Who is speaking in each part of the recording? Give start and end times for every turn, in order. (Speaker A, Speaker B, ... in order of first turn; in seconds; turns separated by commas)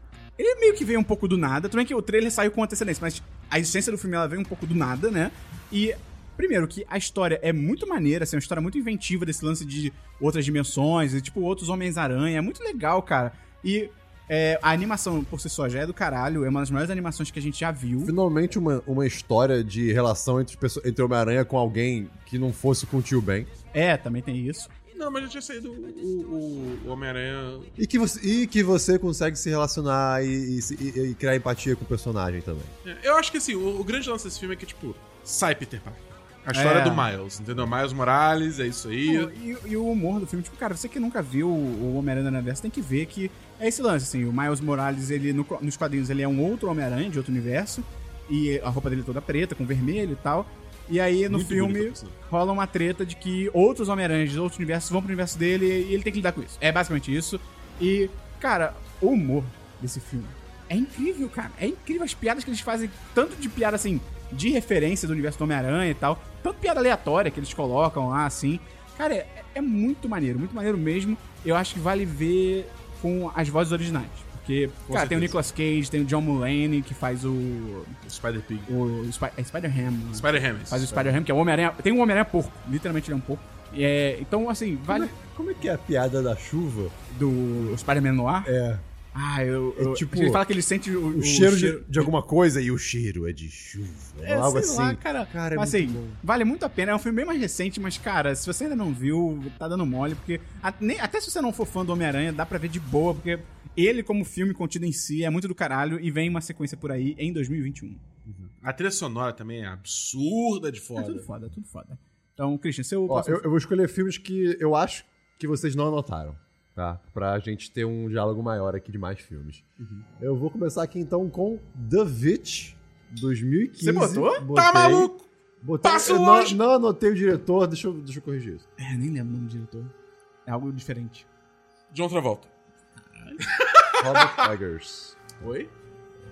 Speaker A: 0.4-18.1, Speaker B: 18.0-23.5, Speaker A: 23.7-24.7, Speaker C: 24.9-27.7, Speaker B: 27.8-32.7, Speaker C: 32.8-39.3, Speaker A: 36.5-37.1, Speaker A: 39.0-78.0, Speaker C: 51.3-52.1, Speaker C: 74.9-75.3, Speaker C: 78.0-78.7, Speaker A: 78.7-85.1, Speaker C: 80.1-81.0, Speaker B: 80.9-81.2, Speaker B: 84.9-86.9, Speaker A: 87.1-88.5, Speaker B: 88.4-88.8, Speaker A: 89.1-92.1, Speaker B: 89.8-90.5, Speaker B: 91.1-96.2, Speaker A: 94.2-108.0, Speaker C: 108.2-111.3, Speaker A: 111.0-113.4, Speaker B: 113.1-119.6, Speaker C: 119.8-120.0, Speaker B: 120.2-128.6, Speaker A: 123.8-124.4, Speaker C: 124.5-125.3, Speaker C: 125.8-126.6, Speaker A: 128.8-129.9, Speaker A: 130.4-131.2, Speaker C: 131.9-132.5, Speaker A: 133.2-133.4, Speaker C: 133.4-134.4, Speaker B: 134.0-135.2, Speaker C: 135.4-135.7